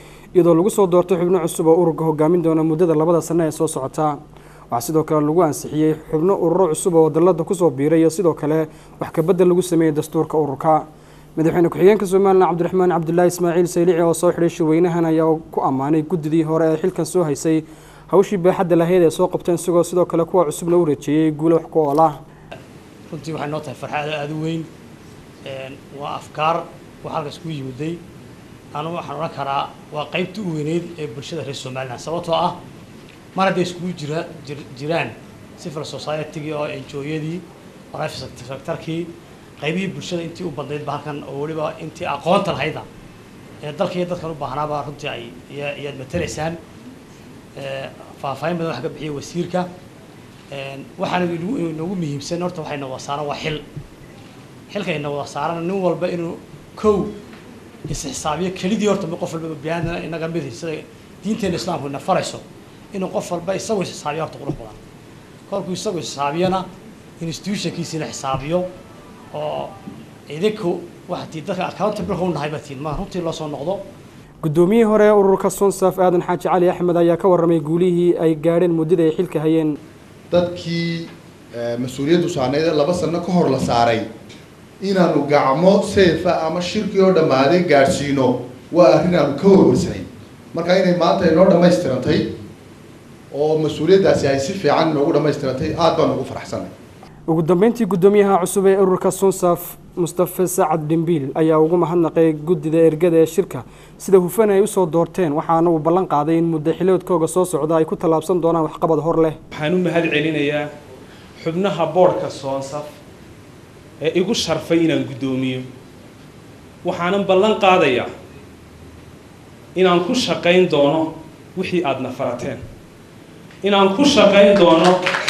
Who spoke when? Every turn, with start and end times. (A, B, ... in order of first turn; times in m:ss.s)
0:00.3-0:04.2 A
0:04.7-0:10.8 A
0:11.4-0:22.2 A
0:23.1-0:24.7 B
0:25.4-0:28.0 B
0:28.7-0:32.6 B
0:33.4-0:42.9 B
0:43.6-0:46.6 B
0:47.6-0:49.7 B
0:50.5-0:53.6 B
0:54.7-0:57.2 B
0:57.9-1:04.8 B
1:05.5-1:06.7 B
1:07.2-1:08.7 B
1:09.3-1:09.7 B
1:10.3-1:13.8 B
1:14.4-1:19.8 A
1:20.3-1:24.1 C
1:24.8-1:32.3 C
1:33.3-1:36.7 C
1:37.3-1:49.4 A
1:49.5-1:50.7 D
1:51.4-1:52.9 D
1:54.0-1:55.7 D
1:56.8-1:58.1 D
1:59.8-2:02.6 D
2:03.6-2:05.0 D